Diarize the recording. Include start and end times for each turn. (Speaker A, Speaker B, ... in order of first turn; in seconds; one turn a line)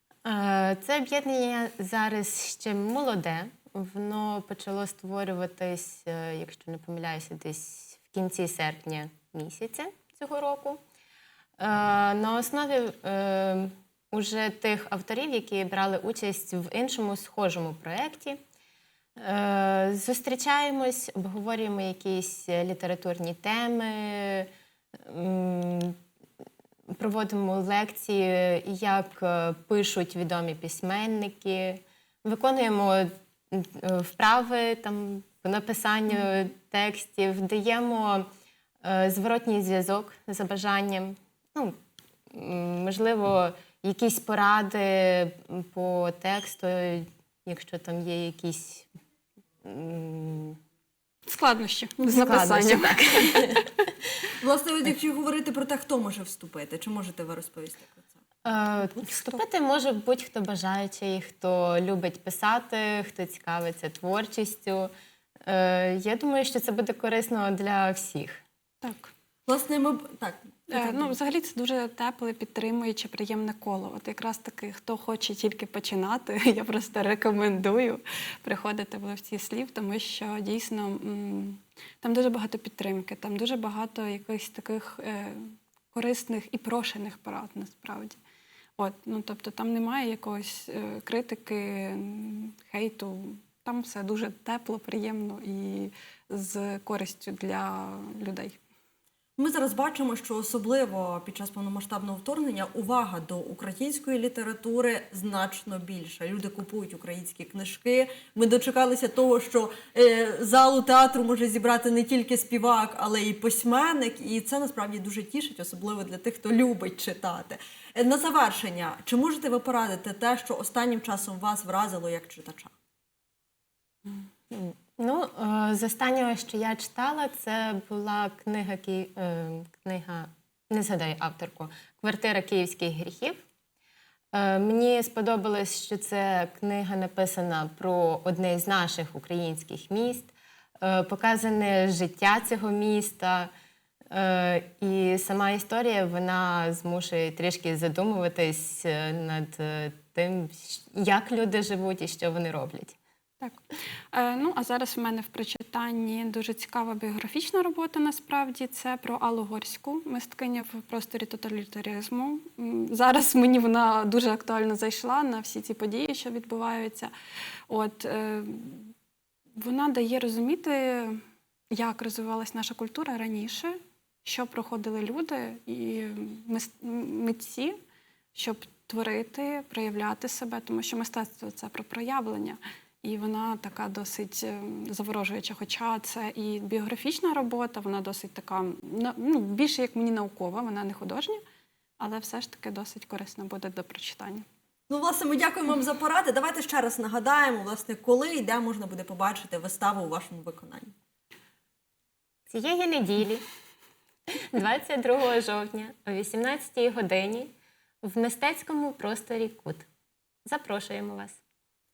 Speaker A: 0.2-10.8
Speaker A: 11.6-18.4
Speaker A: 19.2-24.5
Speaker A: 25.0-26.0
Speaker A: 26.9-38.3
Speaker A: 38.8-41.7
Speaker A: 42.3-48.9
Speaker A: 49.6-50.6
Speaker B: 51.3-53.6
Speaker A: 52.0-53.9
Speaker C: 54.4-58.1
Speaker A: 58.4-64.9
Speaker B: 59.0-59.4
Speaker A: 65.5-68.4
Speaker B: 68.8-69.1
Speaker C: 69.5-71.1
Speaker B: 70.7-88.2
Speaker B: 88.8-98.6
Speaker C: 99.4-122.7
Speaker A: 124.5-133.4
Speaker A: 134.3-143.5
Speaker A: 144.1-153.0
Speaker B: 154.1-167.1
Speaker B: 167.7-168.9
Speaker B: 169.5-171.2
Speaker B: 171.7-177.8
Speaker B: 178.3-191.4
Speaker B: 192.0-194.4
Speaker C: 194.9-200.9
Speaker A: 202.5-203.4
Speaker A: 204.3-207.5
Speaker A: 208.0-209.9
Speaker A: 210.5-211.4